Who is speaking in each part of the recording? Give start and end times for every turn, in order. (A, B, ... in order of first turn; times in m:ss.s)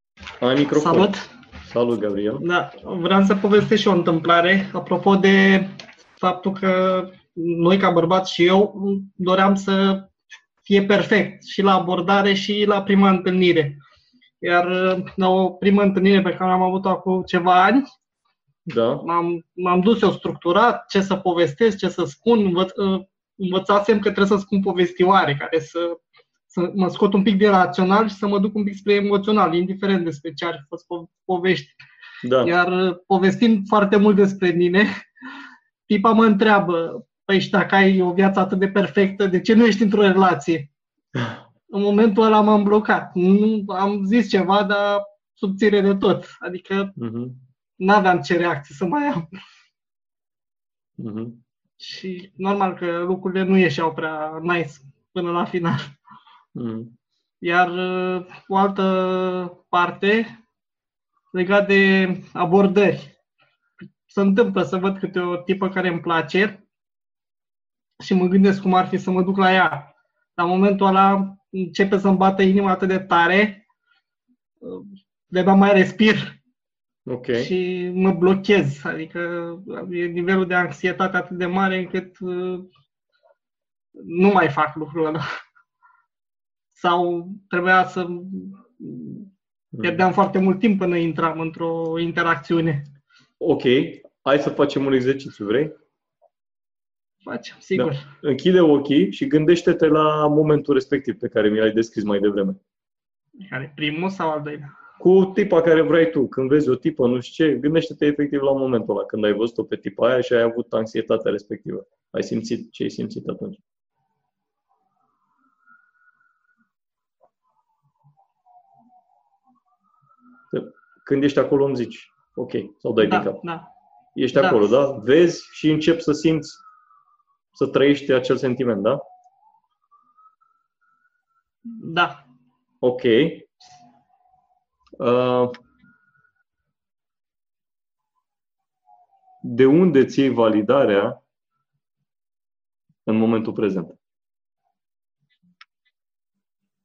0:00.4-0:01.1 A
0:00.7-0:01.2 B
0:01.7-0:02.4 A
0:02.4-0:10.1 B
0:10.6-0:13.8 B
0:14.4-0:17.8 B
0:18.7-0:19.0 A
0:19.0-0:26.0 B
0:26.5-0:31.8 B
0:32.2-0:32.5 A
0:32.4-0:34.9 B
0:35.9-0:40.7 B
0:41.7-0:47.0 B
0:47.0-0:47.4 A
0:47.8-0:49.3 B
0:51.0-0:51.4 A
0:51.8-0:56.0 B
0:56.5-0:57.0 A
0:57.4-1:00.3 B
1:01.3-1:03.1 B
1:04.0-1:06.6 B
1:08.0-1:13.6 B
1:14.6-1:16.4 B
1:17.0-1:17.5 A
1:17.3-1:22.7 B
1:24.0-1:25.2 B
1:26.7-1:29.3 B
1:29.7-1:30.0 A
1:29.8-1:32.9 B
1:33.4-1:35.7 A
1:37.2-1:38.0 B
1:37.8-1:42.6 A
1:43.4-1:44.7 B
1:45.0-1:53.6 A
2:00.5-2:03.4 A
2:03.0-2:03.7 B
2:04.1-2:06.6 A
2:04.3-2:04.7 B
2:07.5-2:09.0 A
2:11.7-2:12.2 B
2:12.8-2:13.5 A
2:15.0-2:15.5 A
2:19.4-2:21.2 A
2:23.0-2:24.0 A